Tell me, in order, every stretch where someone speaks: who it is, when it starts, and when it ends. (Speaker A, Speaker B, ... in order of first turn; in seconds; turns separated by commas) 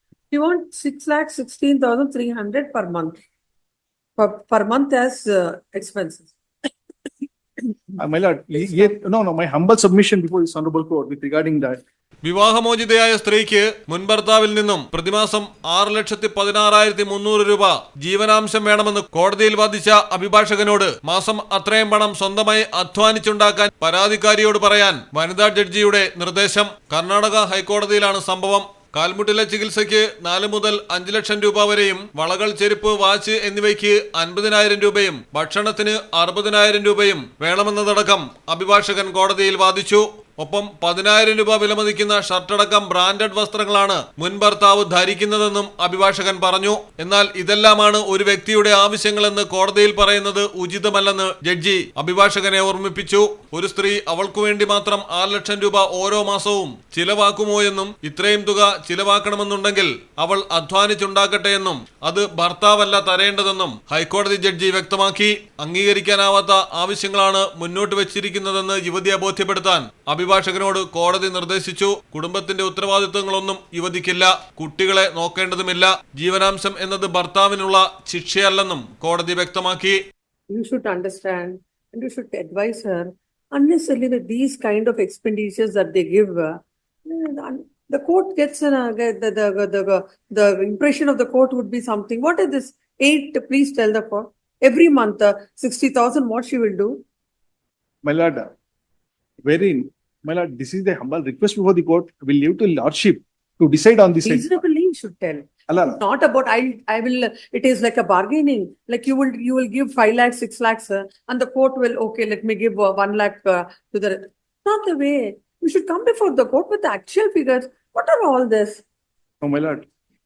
Speaker A: 0.3-3.2, Speaker A: 4.2-6.3, Speaker B: 8.0-11.8, Speaker C: 12.2-80.0, Speaker A: 80.5-97.0, Speaker B: 98.0-98.5, Speaker B: 99.5-104.5, Speaker A: 104.2-105.5, Speaker B: 105.7-106.0, Speaker A: 106.0-118.8, Speaker B: 119.4-119.8